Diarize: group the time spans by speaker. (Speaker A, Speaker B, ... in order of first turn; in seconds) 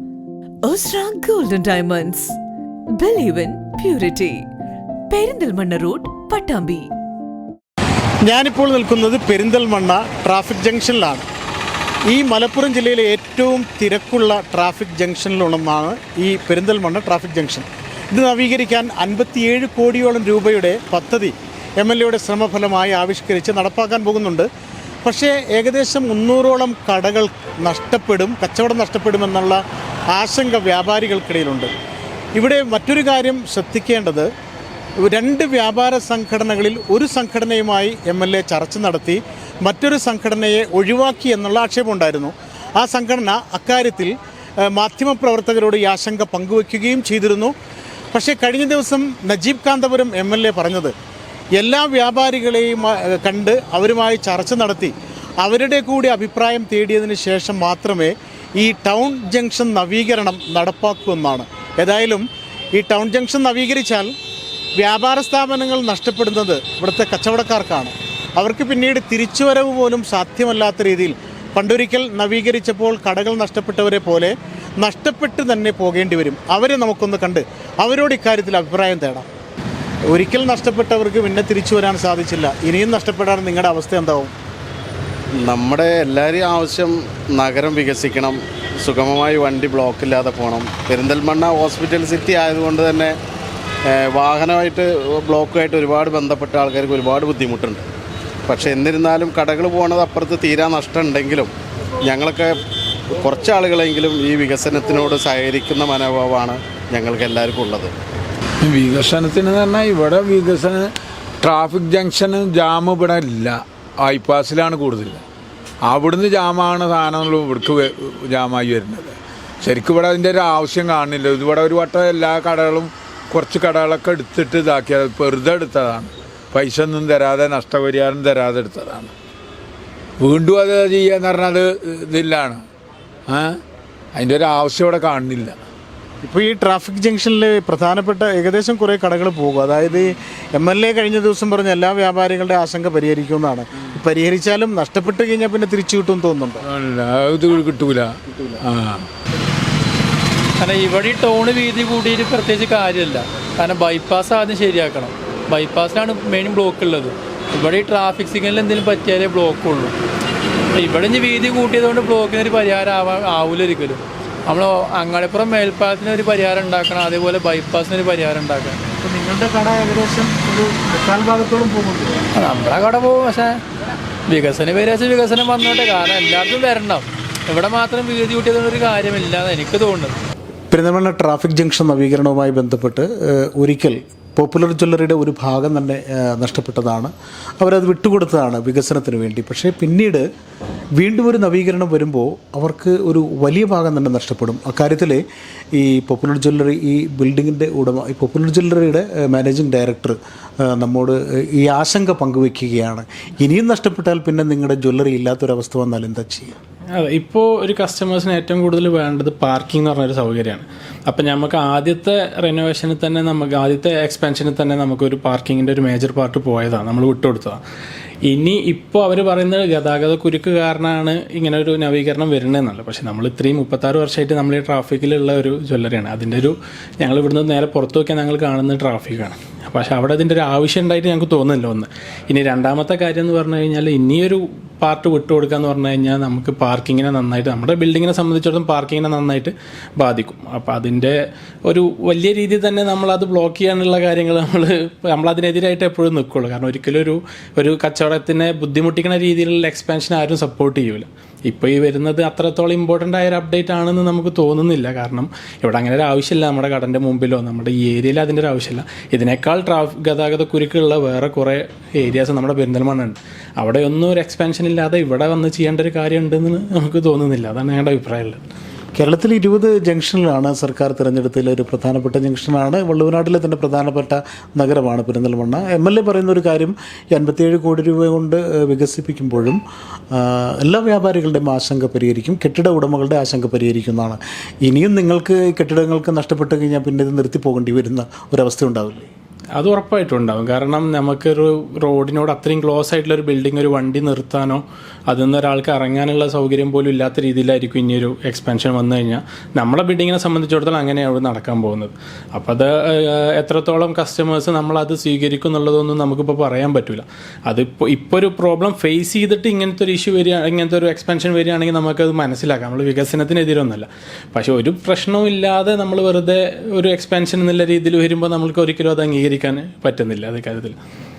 Speaker A: 0.6-2.4, 3.0-4.4, 5.1-6.9
Speaker B: 8.2-11.2, 12.1-24.5, 25.0-31.7, 32.3-34.3, 35.0-47.5, 48.1-50.9, 51.5-64.1, 64.8-79.3, 80.1-84.3, 136.2-146.6, 169.0-172.2, 180.7-190.2, 191.0-195.2, 195.7-200.2, 200.7-206.6, 268.9-279.6, 280.1-289.1
Speaker C: 85.4-93.1, 93.9-97.8, 98.5-101.5, 102.0-102.5, 103.1-107.9
Speaker D: 108.6-110.9, 111.4-115.2, 115.9-129.1, 130.2-132.6, 133.3-133.6, 134.1-135.6, 146.7-149.1
Speaker E: 150.6-159.9, 160.8-168.8, 172.3-173.6, 174.3-180.1
Speaker F: 206.9-217.6, 218.3-268.4, 289.6-320.8